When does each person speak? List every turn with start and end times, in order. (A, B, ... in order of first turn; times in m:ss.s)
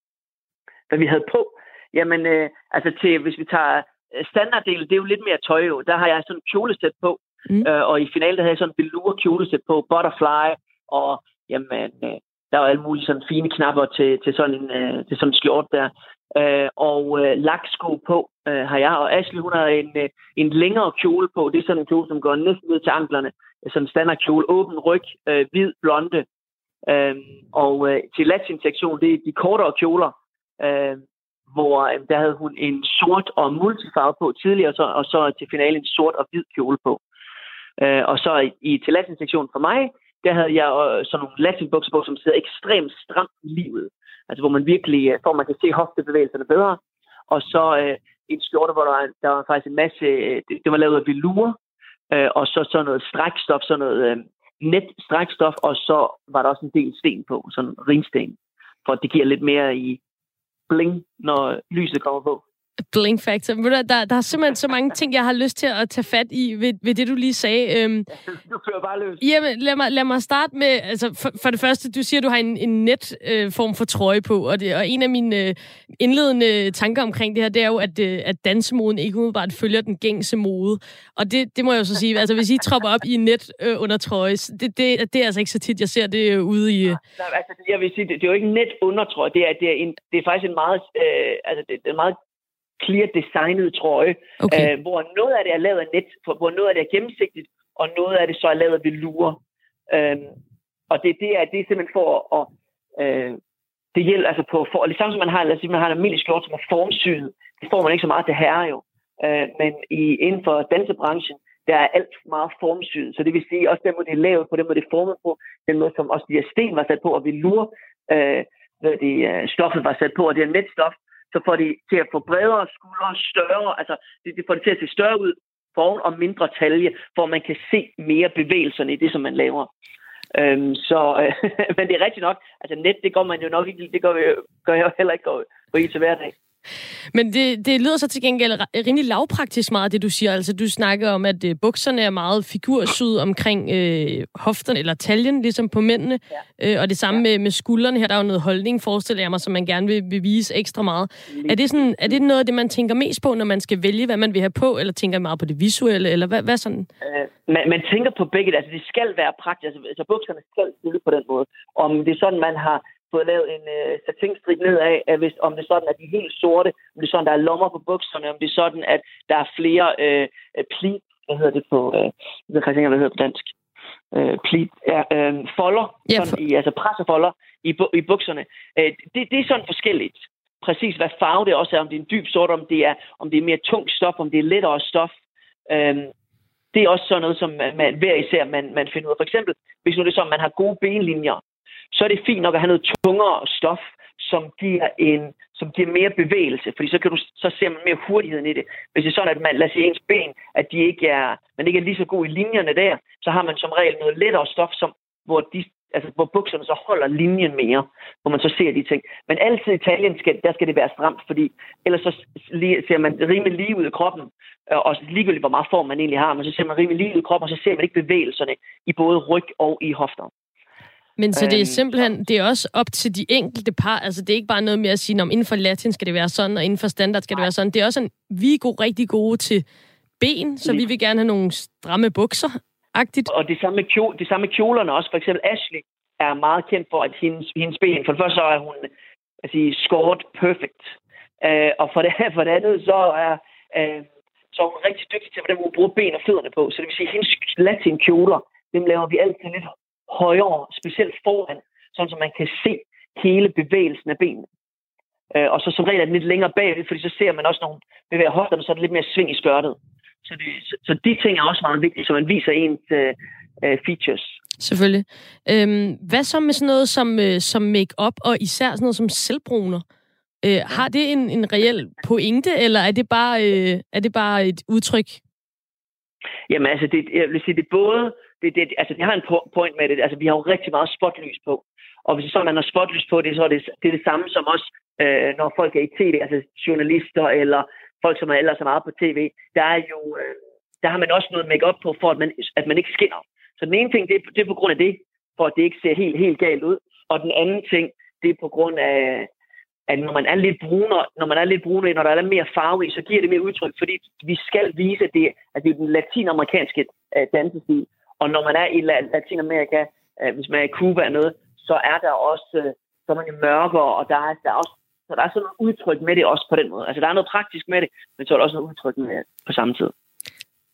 0:00.9-0:26.2 A
0:26.8-0:37.0 A
0:37.8-0:51.6 A
0:52.1-1:00.0 A
1:00.7-1:02.4 A
1:02.9-1:08.1 B
1:08.1-1:09.2 A
1:09.2-1:27.0 B
1:26.9-1:32.2 A
1:32.8-1:39.4 A
1:34.4-1:34.7 B
1:39.9-1:40.3 A
1:40.9-1:43.4 A
1:43.9-2:09.7 A
2:10.3-2:16.3 A
2:17.1-2:36.9 B
2:31.3-2:32.2 A
2:37.0-2:53.5 A
2:54.1-3:05.1 A
2:56.1-2:56.4 B
3:05.7-3:06.1 A
3:06.7-3:11.4 A
3:11.9-3:40.3 A
3:41.2-3:49.6 B
3:41.3-3:42.1 A
3:50.2-3:53.3 B
3:53.3-3:58.9 A
3:59.4-4:14.5 A
4:15.3-4:24.4 A
4:24.6-4:29.8 B
4:30.4-4:35.2 B
4:36.5-4:59.3 A
4:59.9-5:19.9 A